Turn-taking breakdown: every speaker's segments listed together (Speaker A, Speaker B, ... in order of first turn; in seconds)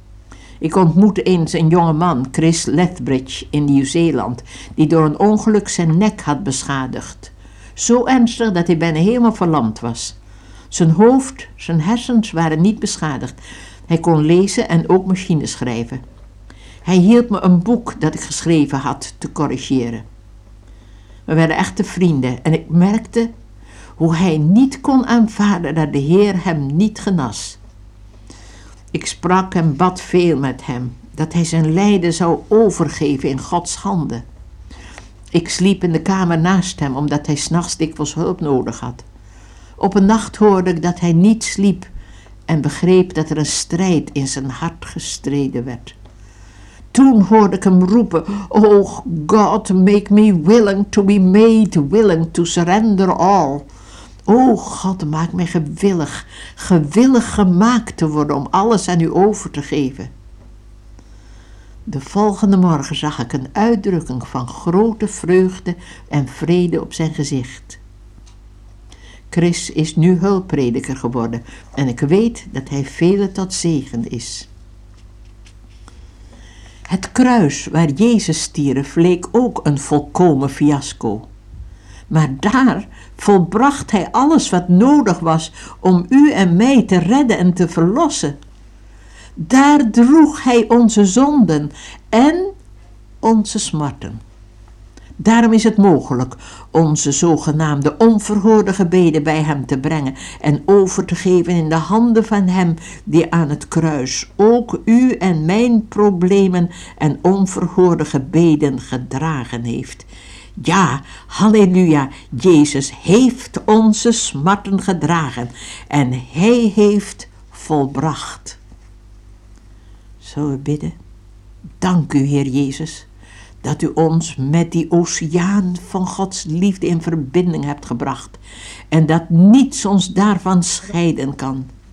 Speaker A: 0.6-10.2, 10.7-13.3, 13.9-16.0, 16.8-20.0, 21.3-23.3, 24.0-27.6, 28.9-34.2, 35.3-39.0, 39.8-41.9, 42.5-45.9, 46.9-53.6, 54.3-60.1, 61.9-67.8, 69.3-74.5, 76.9-81.3, 82.1-88.3, 89.4-92.5, 93.2-94.2, 95.2-110.1, 110.6-118.6, 120.2-120.9, 121.8-123.1, 123.6-131.7